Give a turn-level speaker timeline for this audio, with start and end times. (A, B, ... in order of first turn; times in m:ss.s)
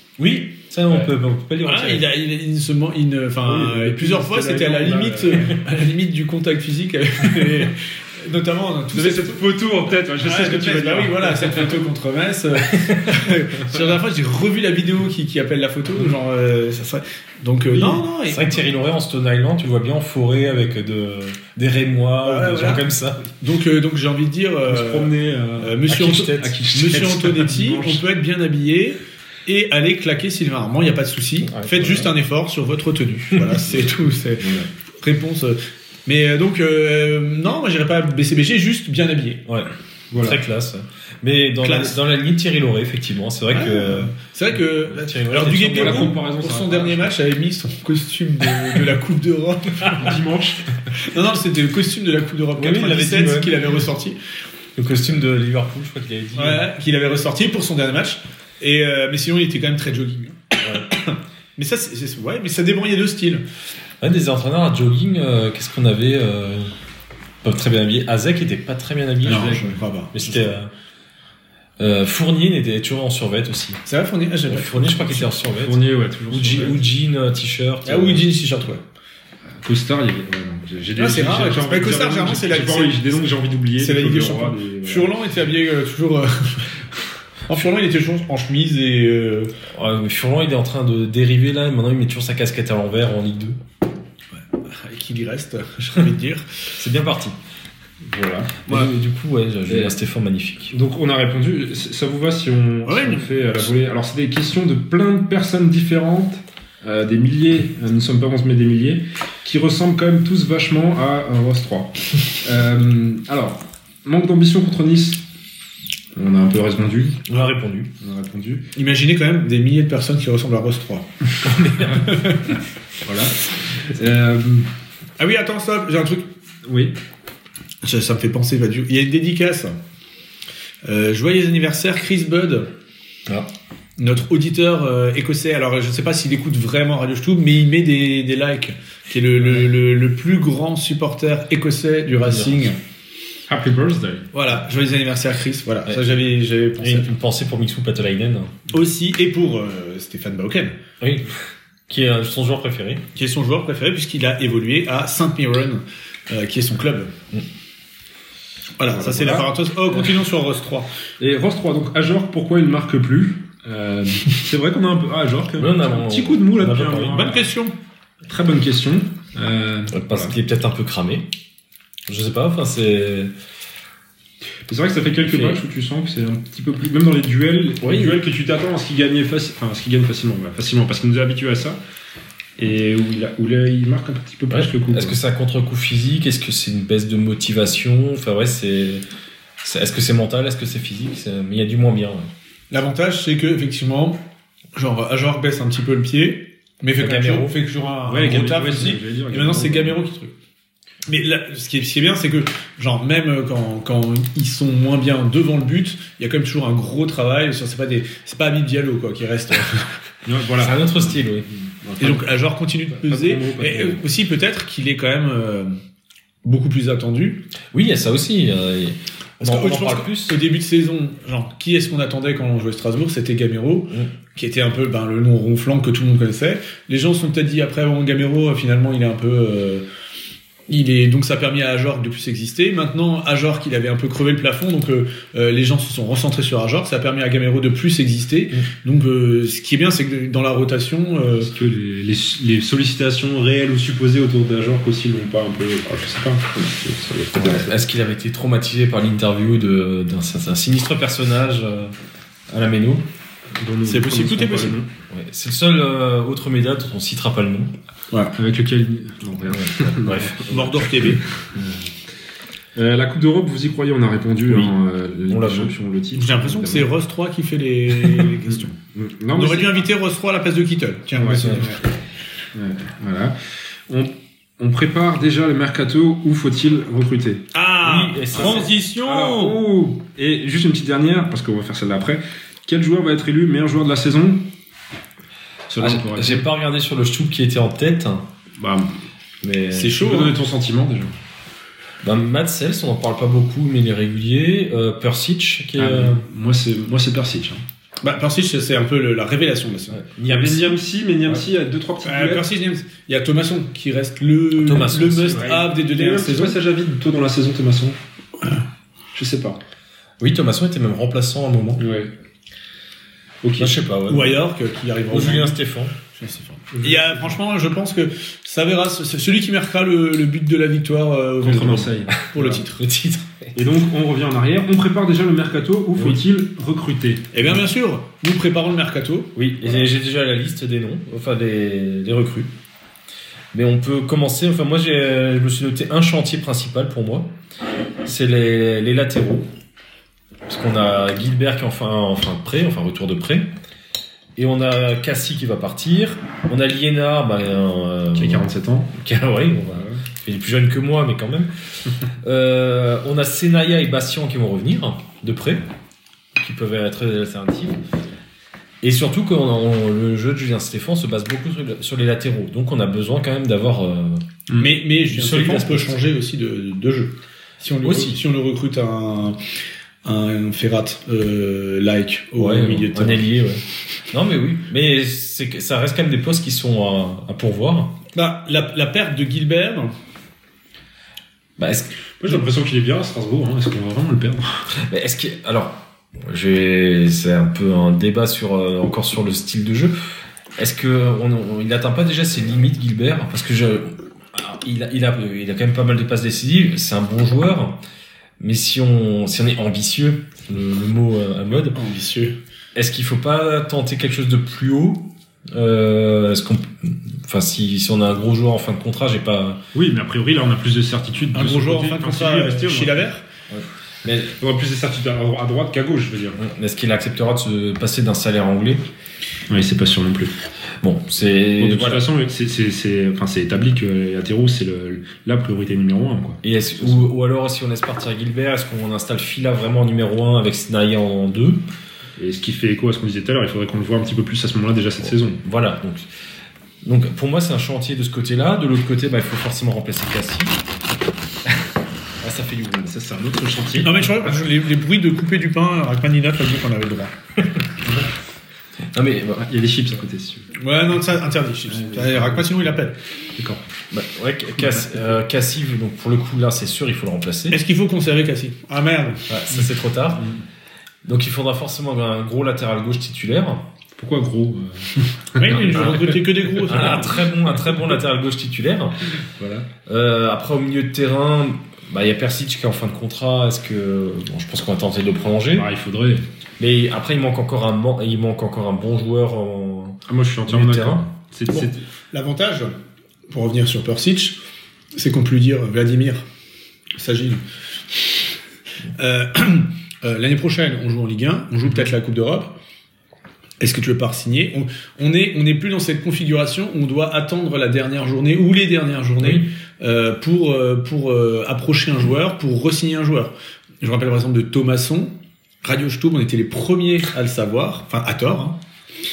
0:00.2-0:02.1 A
0:01.6-0:09.4 B
0:03.4-0:05.7 C
0:08.9-0:11.8 C
0:10.2-0:18.6 B
0:17.7-0:18.0 C
0:18.3-0:23.2 A
0:22.2-0:22.8 B
0:23.4-0:39.4 B
0:24.7-0:28.0 C
0:25.9-0:26.6 A
0:31.4-0:32.1 A
0:34.4-0:34.7 C
0:39.5-0:44.1 A
0:40.1-0:40.4 C
0:41.6-0:42.0 B
0:43.5-0:50.1 B
0:44.8-0:46.2 A
0:45.8-0:47.1 C
0:49.9-0:50.6 C
0:51.0-0:54.2 B
0:52.6-0:53.7 A
0:54.8-0:56.7 A
0:56.4-1:03.4 B
1:04.0-1:06.7 A
1:07.4-1:10.7 A
1:09.2-1:10.5 B
1:11.8-1:13.8 A
1:13.8-1:15.3 B
1:14.4-1:18.3 A
1:15.5-1:16.8 C
1:17.8-1:18.8 B
1:19.6-1:25.2 C
1:21.0-1:23.1 B
1:23.8-1:26.8 B
1:27.5-1:29.5 B
1:29.7-1:33.6 A
1:34.3-1:36.5 B
1:36.7-1:37.4 A
1:38.0-1:38.9 C
1:38.7-1:40.7 A
1:39.7-1:40.0 C
1:40.7-1:55.2 C
1:42.8-1:43.3 B
1:56.1-1:57.2 C
1:57.2-1:57.9 A
1:58.0-1:58.6 C
1:58.8-2:01.1 B
2:01.4-2:02.0 A
2:02.0-2:02.5 B
2:03.0-2:04.7 C
2:05.2-2:06.3 B
2:06.6-2:07.0 C
2:07.8-2:09.8 B
2:10.8-2:12.7 B
2:14.0-2:22.8 B
2:22.2-2:22.7 A
2:23.5-2:24.3 C
2:24.3-2:27.1 B
2:26.8-2:28.6 A
2:28.7-2:30.7 B
2:31.0-2:31.3 A
2:31.9-2:33.0 A
2:33.1-2:37.1 B
2:38.8-2:40.9 B
2:38.9-2:39.5 C
2:41.2-2:47.5 C
2:45.6-2:47.4 A
2:47.0-2:47.7 B
2:48.3-2:50.3 C
2:49.9-2:51.3 A
2:52.1-2:53.3 A
2:54.7-3:01.8 C
2:55.2-2:55.6 A
2:57.8-2:58.2 A
3:02.6-3:05.2 C
3:04.5-3:09.0 A
3:09.6-3:12.3 A
3:12.7-3:14.2 B
3:14.8-3:20.3 B
3:17.0-3:17.5 A
3:18.0-3:20.0 C
3:21.1-3:29.9 B
3:30.2-3:32.3 C
3:30.6-3:31.5 A
3:32.0-3:35.7 B
3:32.9-3:34.0 C
3:36.4-3:37.4 B
3:37.7-3:40.4 A
3:39.4-3:49.8 B
3:50.7-4:01.5 B
4:01.4-4:07.7 C
4:07.3-4:11.9 A
4:12.5-4:13.1 A
4:13.6-4:14.9 C
4:13.8-4:14.8 B
4:15.1-4:17.7 A
4:18.4-4:21.9 C
4:19.5-4:20.9 A
4:20.5-4:21.2 B
4:22.8-4:26.9 C
4:24.4-4:24.7 A
4:25.3-4:25.7 A
4:26.1-4:28.7 B
4:28.0-4:29.8 C
4:29.3-4:31.8 B
4:31.2-4:31.8 C
4:32.5-4:33.3 C
4:33.9-4:37.5 C
4:37.5-4:39.6 B
4:37.8-4:38.7 A
4:38.3-4:44.4 C
4:45.7-4:46.4 C
4:45.8-4:48.3 A
4:48.6-4:48.9 C
4:49.4-4:50.0 A
4:49.7-4:50.3 B
4:49.9-4:51.1 C
4:52.0-4:56.2 A
4:55.8-4:57.6 C
4:58.0-5:00.0 B
4:59.9-5:00.8 A
5:00.3-5:02.5 C
5:02.0-5:06.6 B
5:04.6-5:05.5 A
5:05.3-5:08.0 C
5:09.1-5:09.6 C
5:10.2-5:11.8 A
5:11.8-5:12.1 C
5:13.4-5:13.7 C
5:13.6-5:14.4 A
5:14.1-5:15.6 B
5:15.1-5:15.9 A
5:16.1-5:22.8 B
5:16.7-5:17.3 C
5:21.4-5:22.2 C
5:22.3-5:23.5 A
5:23.5-5:27.3 C
5:27.3-5:29.3 B
5:29.3-5:32.5 A
5:33.5-5:37.3 A
5:38.0-5:39.5 A
5:40.5-5:43.5 A
5:44.4-5:51.5 A
5:48.2-5:48.9 C
5:49.7-5:50.0 C
5:52.2-5:55.6 A
5:56.4-5:57.8 A
5:58.8-6:04.2 A
6:04.6-6:09.4 B
6:05.1-6:06.0 A
6:07.8-6:08.2 A
6:10.0-6:13.2 B
6:12.4-6:18.0 A
6:18.1-6:19.9 B
6:21.6-6:21.9 A
6:22.2-6:24.6 C
6:24.7-6:29.9 A
6:30.6-6:37.8 A
6:38.4-6:41.8 A
6:41.5-6:42.3 B
6:42.7-6:49.6 A
6:49.7-6:53.1 C
6:51.3-6:53.2 B
6:53.5-6:54.3 A
6:54.4-6:56.4 C
6:56.4-6:58.8 A
6:59.5-7:00.3 C
7:00.8-7:02.0 A
7:01.6-7:07.1 C
7:06.4-7:11.6 A
7:12.2-7:15.4 C
7:15.0-7:16.1 A
7:16.8-7:20.6 A
7:22.2-7:23.0 A
7:22.9-7:24.4 C
7:23.8-7:27.1 B
7:28.9-7:29.4 A
7:29.4-7:30.5 C
7:30.5-7:32.9 B
7:31.7-7:32.8 C
7:33.4-7:33.6 C
7:33.9-7:37.6 A
7:37.5-7:39.2 B
7:39.3-7:40.3 A
7:40.2-7:40.4 C
7:41.0-7:43.7 A
7:44.0-7:46.9 C
7:45.4-7:47.2 B
7:45.7-7:49.1 A
7:49.4-7:49.7 C
7:49.9-7:55.7 A
7:55.5-7:56.2 C
7:56.6-8:01.0 A
8:00.1-8:01.8 C
8:01.5-8:02.7 B
8:03.3-8:04.4 B
8:04.9-8:06.2 B
8:07.0-8:07.4 B
8:09.0-8:12.5 B
8:13.6-8:28.6 B